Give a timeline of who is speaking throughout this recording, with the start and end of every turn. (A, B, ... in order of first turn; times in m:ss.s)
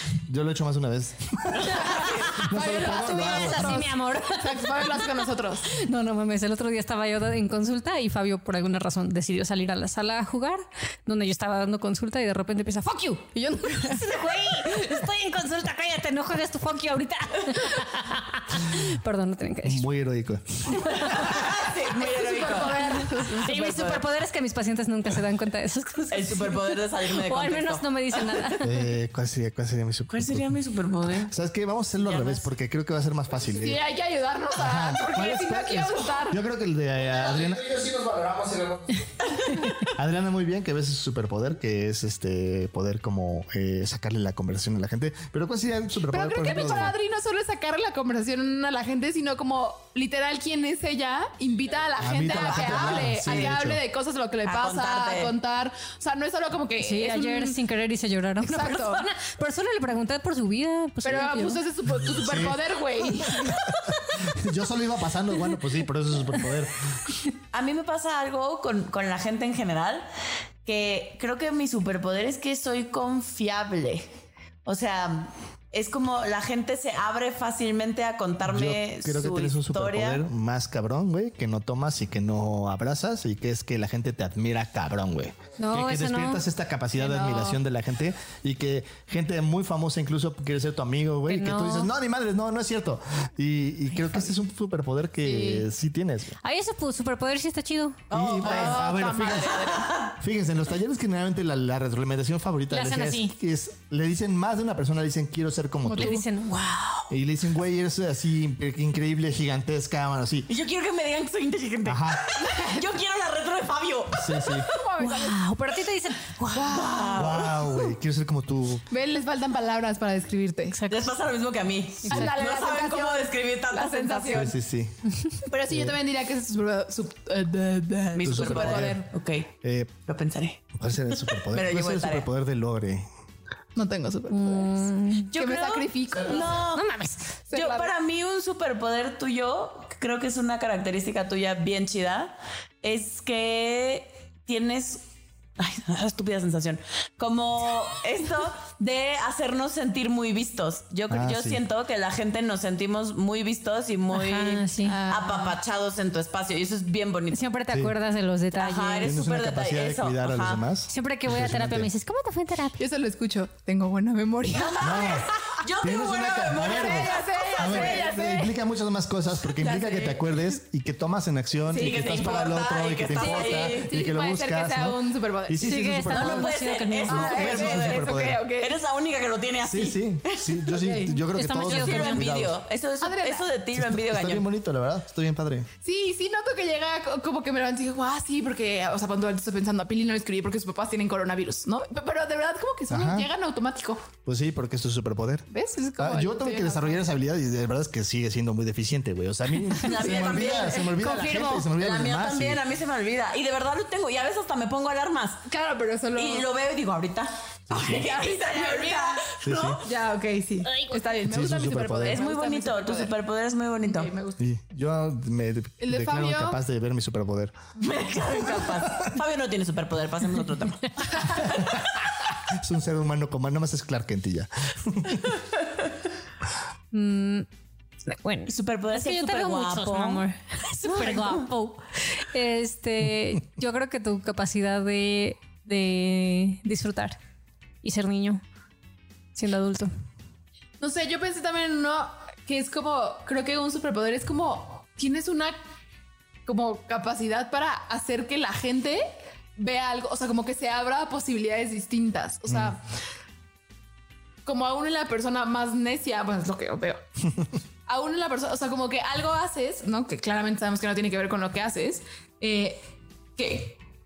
0:00.3-0:03.8 A
0:01.8-0:02.4 B
0:01.9-0:05.7 C
0:02.7-0:05.1 D
0:05.7-0:19.8 D
0:19.6-0:21.1 A
0:21.1-0:24.0 B
0:22.0-0:23.5 C
0:23.3-0:28.9 D
0:26.1-0:28.4 B
0:28.6-0:30.6 A
0:30.1-0:31.3 B
0:31.3-0:33.8 A
0:32.0-0:32.5 B
0:33.5-0:36.4 C
0:34.6-0:37.6 A
0:37.0-0:39.1 E
0:39.4-0:39.6 B
0:39.8-0:47.0 A
0:46.1-0:57.6 C
0:52.0-0:53.8 A
0:52.1-0:53.5 B
0:54.4-0:55.3 B
0:56.8-1:01.6 D
0:58.4-0:59.1 C
1:01.0-1:03.6 C
1:02.0-1:02.6 A
1:03.3-1:06.8 A
1:07.5-1:10.1 B
1:10.6-1:14.1 B
1:14.6-1:20.2 B
1:18.4-1:36.4 A
1:25.6-1:26.4 D
1:27.0-1:27.5 C
1:31.3-1:31.9 D
1:35.2-1:35.7 D
1:36.4-1:38.0 D
1:38.1-1:40.2 B
1:38.1-1:46.2 A
1:38.4-1:39.9 C
1:42.7-1:43.3 D
1:45.9-1:46.2 C
1:45.9-1:47.1 D
1:47.1-1:50.5 A
1:50.5-1:54.6 B
1:51.8-1:52.2 A
1:52.4-1:52.8 C
1:54.2-1:54.7 A
1:54.7-1:55.4 C
1:55.0-1:56.8 D
1:56.5-1:57.6 C
1:56.6-1:57.6 B
1:57.2-1:58.8 A
1:58.9-2:00.8 C
2:00.7-2:01.0 D
2:00.9-2:04.6 B
2:02.1-2:04.5 C
2:04.3-2:05.0 A
2:05.5-2:09.1 C
2:05.7-2:06.0 A
2:08.1-2:09.5 B
2:08.2-2:09.0 A
2:09.6-2:09.9 A
2:10.1-2:10.6 B
2:10.7-2:13.1 A
2:11.3-2:12.3 B
2:13.8-2:16.6 C
2:14.3-2:15.3 D
2:15.3-2:16.9 B
2:16.6-2:17.4 D
2:17.5-2:17.9 C
2:17.5-2:25.1 B
2:25.6-2:37.4 B
2:31.1-2:31.6 A
2:34.1-2:35.0 D
2:34.8-2:35.6 C
2:37.3-2:39.1 D
2:38.5-2:40.6 B
2:39.0-2:41.9 A
2:40.9-2:42.8 D
2:42.8-2:45.4 C
2:44.5-2:48.1 B
2:44.8-2:45.3 A
2:45.8-2:58.4 A
2:46.5-2:48.6 C
2:49.6-2:50.4 C
2:51.7-2:52.3 C
2:51.7-2:53.9 B
2:53.2-2:55.9 C
2:55.6-2:57.5 D
2:56.1-3:01.0 B
2:57.1-2:58.8 C
2:59.6-3:02.6 A
3:01.1-3:02.2 D
3:01.6-3:04.5 B
3:03.0-3:03.5 C
3:03.8-3:05.7 A
3:05.8-3:14.0 C
3:12.9-3:13.3 A
3:14.2-3:15.5 A
3:15.5-3:17.0 C
3:16.0-3:22.6 A
3:19.7-3:25.4 B
3:20.0-3:20.7 C
3:21.0-3:21.6 D
3:25.5-3:26.5 C
3:26.2-3:29.9 B
3:27.7-3:28.0 A
3:27.9-3:29.3 C
3:29.4-3:29.8 A
3:29.8-3:33.1 C
3:30.7-3:30.9 D
3:31.3-3:32.2 A
3:32.0-3:34.1 B
3:33.8-3:34.4 C
3:34.4-3:37.5 A
3:35.8-3:36.6 C
3:37.8-3:41.4 B
3:41.4-3:41.8 A
3:42.6-3:45.3 A
3:46.9-3:47.5 D
3:48.1-3:57.2 D
3:48.5-3:50.2 B
3:50.8-3:51.5 B
3:57.8-3:58.4 D
3:59.4-3:59.9 D
4:00.8-4:05.6 C
4:06.5-4:12.8 C
4:12.5-4:12.7 A
4:14.5-4:17.0 C
4:17.9-4:22.8 C
4:23.4-4:23.8 C